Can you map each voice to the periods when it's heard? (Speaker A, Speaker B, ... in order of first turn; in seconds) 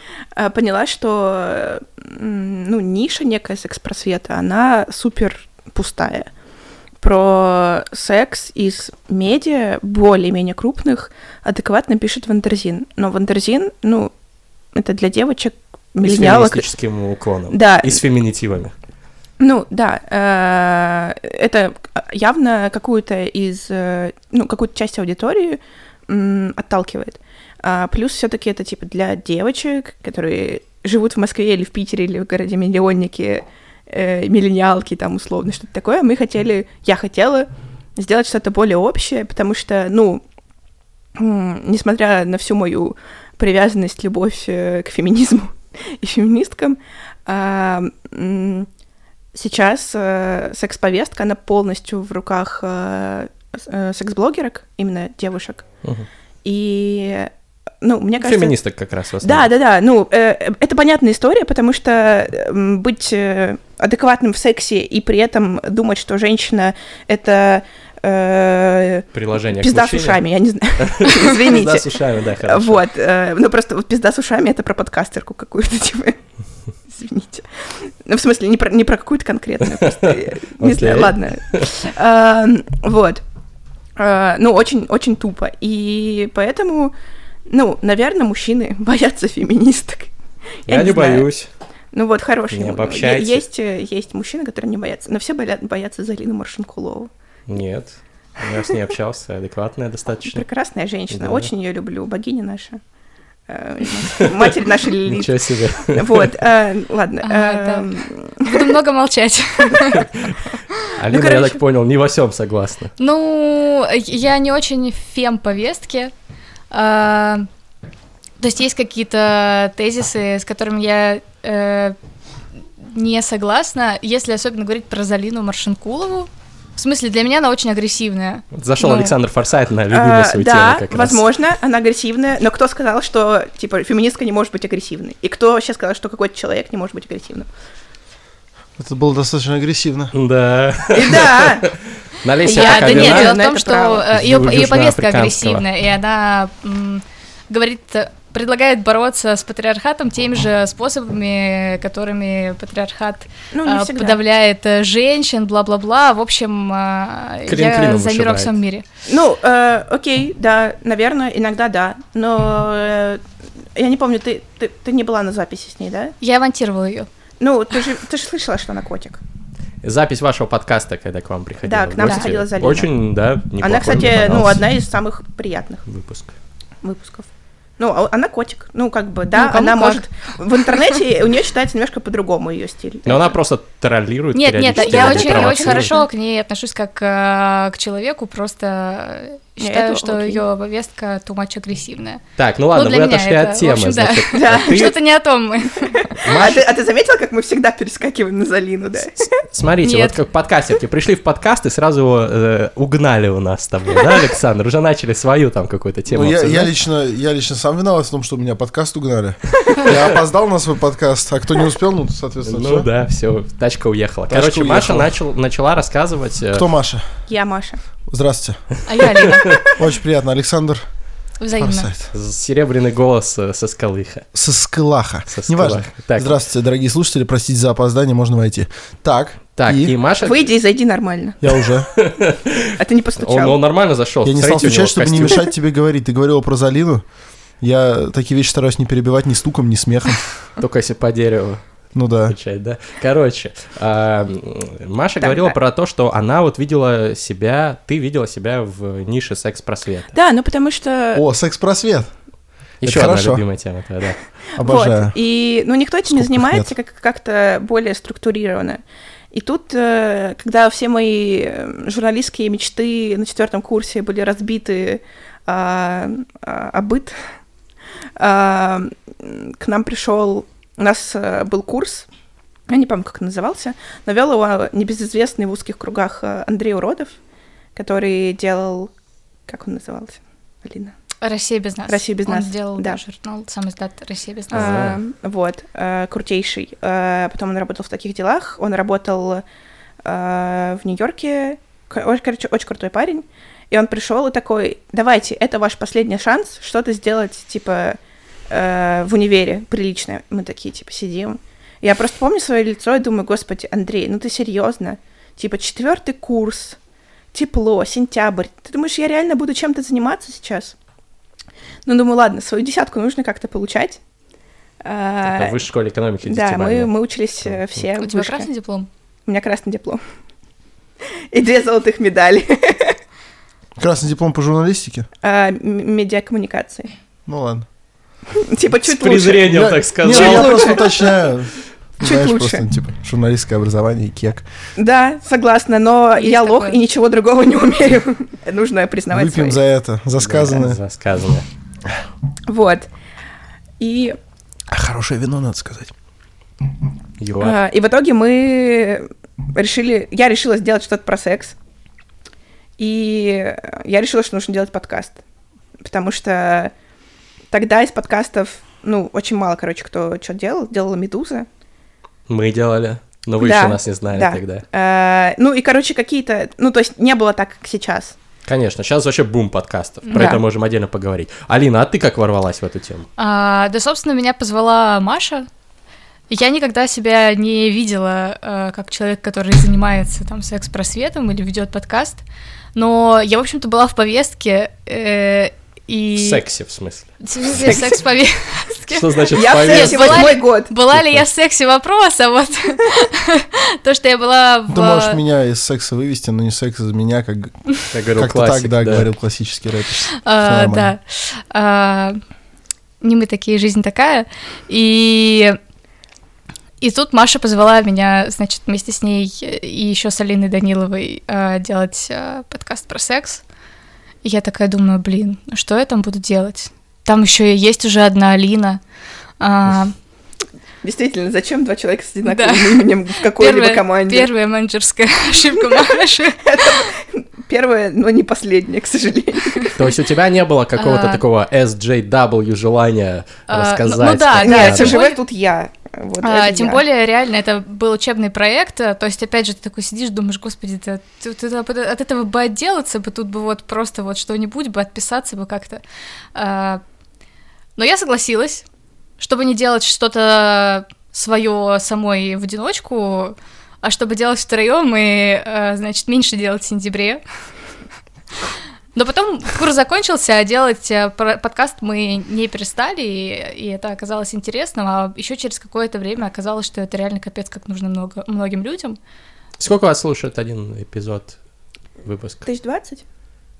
Speaker A: 0.3-6.3, 7.0-14.1, 14.7-16.7, 17.5-18.0, 19.4-40.2, 41.1-48.7, 49.3-55.6, 56.4-58.5, 59.2-71.9, 72.4-76.2, 76.9-83.2, 84.0-86.9, 87.5-90.1, 90.7-91.3, 91.9-97.1, 100.3-102.8, 103.5-108.7, 111.1-111.6, 129.9-137.5, 140.9-141.7, 142.4-144.1, 153.5-154.2, 159.1-163.2, 163.8-166.1, 167.4-169.2, 171.6-172.9, 173.6-175.8, 176.8-183.3, 184.8-185.9, 189.6-190.4, 194.3-194.9, 195.9-199.2, 217.3-217.8, 230.2-231.4, 232.8-233.6, 245.2-245.6, 250.1-251.2, 254.6-258.8, 259.3-267.2, 268.2-272.1, 272.7-277.1, 277.8-278.9, 279.5-280.9, 281.9-283.0, 284.5-289.4, 290.0-298.0, 298.5-306.8, 307.3-310.7, 311.9-314.0, 314.8-315.6, 316.2-318.5, 319.3-320.0, 321.3-323.0, 325.2-326.9, 328.3-331.2, 332.0-332.6, 334.8-339.6, 342.5-342.9, 343.8-344.2, 347.4-351.6, 352.8-355.2, 355.8-356.7, 357.5-361.5, 363.4-368.1, 370.1-370.4, 387.5-388.0, 389.3-390.7, 420.8-424.3, 426.4-429.8, 434.4-436.8, 472.4-473.0
Speaker B: 16.0-18.7, 58.2-59.5, 69.1-70.2, 70.8-72.8, 79.8-81.7, 90.7-91.5, 92.5-93.4, 97.5-100.4, 101.1-101.5, 104.2-106.3, 109.9-110.3, 110.9-112.9, 128.5-131.2, 140.1-143.3, 144.1-145.6, 157.5-158.5, 169.8-174.6, 175.9-176.3, 183.1-186.0, 192.4-194.9, 196.2-196.6, 199.2-206.7, 212.4-216.7, 222.1-224.2, 225.3-226.4, 229.6-230.5, 231.9-235.5, 240.6-241.6, 242.3-250.1, 252.8-254.2, 284.5-285.0, 315.2-316.9, 328.9-330.8, 340.2-341.4, 347.2-347.6, 362.3-364.6, 368.4-373.1, 386.1-387.8, 388.9-391.2, 397.9-399.1, 429.8-435.0, 469.6-471.4, 472.0-472.4
Speaker C: 107.2-110.1, 113.0-116.1, 116.7-117.5, 118.4-122.0, 122.8-129.1, 142.5-158.8, 166.2-167.1, 172.0-172.3, 179.3-180.0, 184.3-192.2, 192.7-196.1, 199.8-200.1, 218.9-219.7, 221.4-221.9, 281.2-284.9, 318.0-318.9, 336.1-336.8, 370.0-370.4, 373.2-375.5, 376.3-382.2, 382.7-386.4, 387.2-395.2, 400.2-402.2, 403.0-405.6, 406.8-413.4, 414.2-418.8, 419.4-419.9, 422.2-426.9, 430.8-431.2, 433.5-435.2, 436.2-445.8, 446.3-446.8, 447.8-448.6, 449.2-457.2, 458.9-469.0
Speaker D: 138.8-140.1, 206.1-212.9, 214.3-215.1, 216.5-217.0, 218.1-218.6, 219.7-220.8, 221.6-222.1, 224.3-229.9, 231.4-231.9, 234.2-237.0, 237.6-240.3, 241.9-242.3, 251.1-252.1, 252.8-253.4, 254.6-255.1, 256.1-256.7, 323.8-325.1, 327.3-327.6, 329.5-334.4, 339.1-340.8, 344.7-345.9, 394.7-397.5, 398.1-400.9